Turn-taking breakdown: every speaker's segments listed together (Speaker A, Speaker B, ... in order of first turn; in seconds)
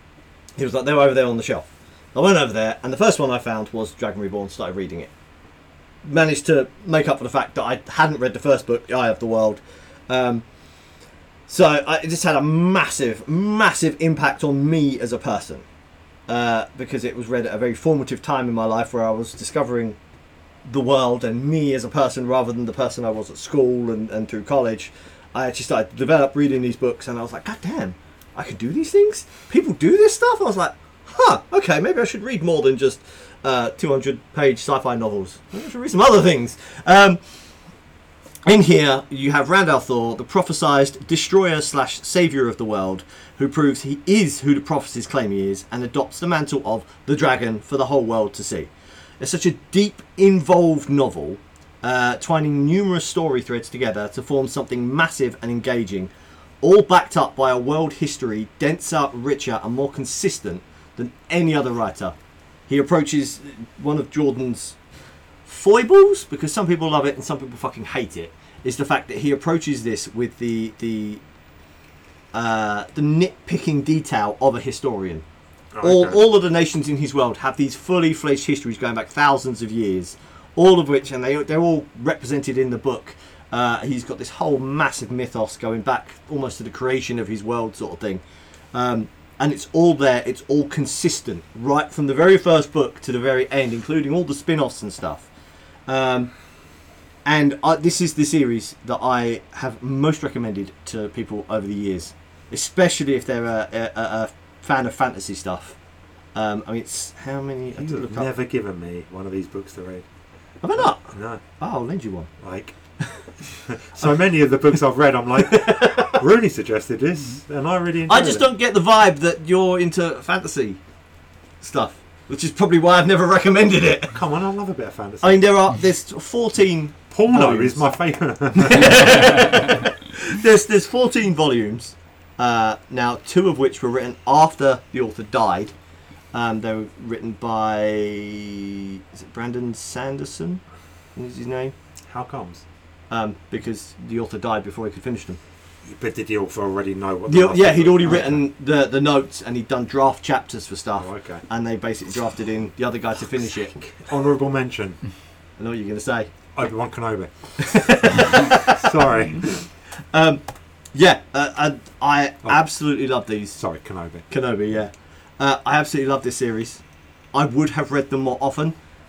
Speaker A: 0.6-5.1, 6.0-10.4, 11.5-15.7, 16.3-20.0, 20.6-37.2, 38.5-56.1, 56.6-62.1, 62.7-64.8, 65.5-71.2, 72.3-75.2, 75.8-95.3, 95.9-96.3, 97.2-105.8, 106.3-108.3, 110.6-112.3, 115.4-116.2, 118.1-120.8, 121.6-124.2, 125.2-127.9, 128.6-135.7, 136.3-140.6, 141.2-141.8, 143.1-145.4, 147.3-153.7, 155.6-156.3, 157.6-158.8, 160.1-160.4, 160.9-163.6, 164.3-166.8, 167.3-168.8
Speaker B: 75.7-76.2, 107.8-110.1, 111.1-111.4, 112.4-112.8, 113.5-118.5, 124.1-125.5, 127.1-129.3, 142.1-142.6, 145.8-148.4, 151.0-151.4, 153.6-155.0, 156.6-159.7, 163.6-164.3